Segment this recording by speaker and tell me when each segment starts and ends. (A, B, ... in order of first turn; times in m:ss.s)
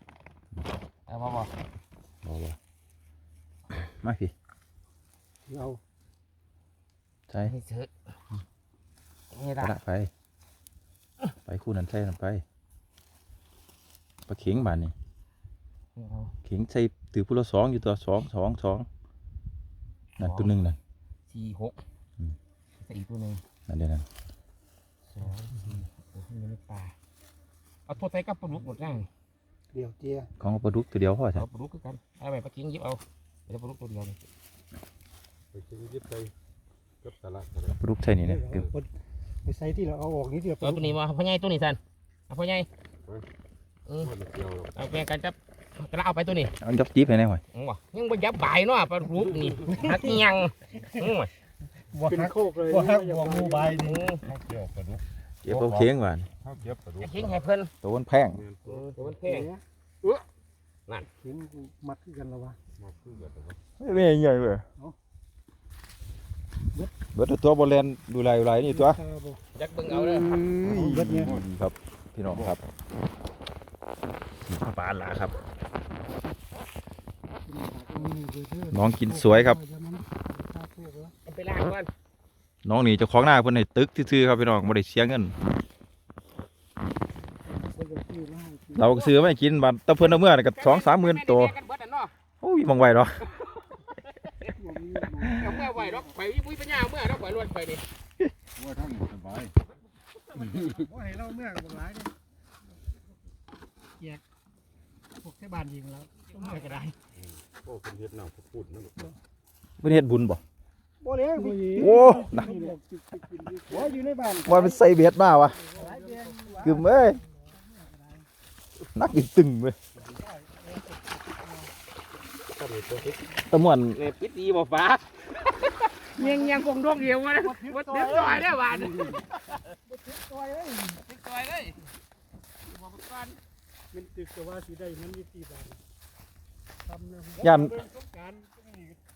0:01.1-0:01.5 A
0:02.2-0:02.6 B
0:03.7-0:04.3 B
0:05.5-0:05.8 C
0:07.4-0:07.9 A
0:09.3-0:09.8 A
0:09.6-0:10.1 B
0:11.4-0:12.4 B
0:14.3-0:14.9 B
0:16.0-0:16.3 A
0:16.4-0:18.9 B
0:20.2-0:20.5 A
0:20.2-0:20.8 B
0:21.3-0:21.8 A
0:22.8-0:23.4 A
0:23.7-0:24.0 B
0:25.1-0:26.9 A
0:27.9-0:29.1 A
0:29.7-0:30.3 C
0:30.4-0:31.4 B
0:31.3-0:34.2 A
0:35.5-0:36.3 D
0:37.0-0:37.7 D
0:37.7-0:38.7 B
0:38.2-0:38.9 C
0:39.4-0:41.0 C
0:40.6-0:41.8 A
0:42.3-0:42.7 A
0:43.9-0:44.1 A
0:44.0-0:44.7 D
0:44.7-0:46.5 A
0:46.6-0:47.4 B
0:47.5-0:51.3 A
0:52.0-0:53.9 C
0:53.0-0:55.0 D
0:53.7-0:54.3 A
0:55.4-0:56.3 B
0:56.4-0:57.4 D
0:57.0-0:57.7 A
0:57.8-0:58.4 B
0:58.4-0:58.8 D
0:58.6-0:59.5 A
0:59.2-0:59.6 C
1:01.2-1:02.6 C
1:02.8-1:03.6 D
1:03.8-1:04.6 B
1:07.1-1:09.0 B
1:08.6-1:09.4 C
1:09.5-1:10.3 A
1:10.1-1:12.6 B
1:10.6-1:11.4 C
1:14.4-1:15.3 B
1:17.4-1:21.1 C
1:18.7-1:19.6 B
1:21.2-1:21.9 A
1:22.6-1:25.4 B
1:27.5-1:28.9 C
1:28.8-1:31.5 B
1:28.8-1:29.1 A
1:30.0-1:32.1 A
1:32.4-1:33.2 B
1:33.4-1:34.5 A
1:34.5-1:36.1 C
1:35.2-1:37.8 A
1:38.6-1:39.5 D
1:40.7-1:42.1 C
1:45.2-1:46.7 C
1:46.3-1:46.9 A
1:47.6-1:49.0 D
1:49.8-1:50.4 B
1:51.0-1:54.8 C
1:51.7-1:52.5 B
1:54.4-1:55.6 B
1:55.7-1:56.9 C
1:56.6-1:57.2 B
1:58.9-1:59.8 B
2:00.1-2:01.7 C
2:03.4-2:04.0 B
2:04.0-2:09.2 A
2:06.2-2:06.6 C
2:07.4-2:09.2 C
2:09.9-2:10.8 C
2:10.8-2:11.8 A
2:12.6-2:13.4 A
2:13.9-2:15.8 C
2:16.9-2:19.0 C
2:17.4-2:17.8 B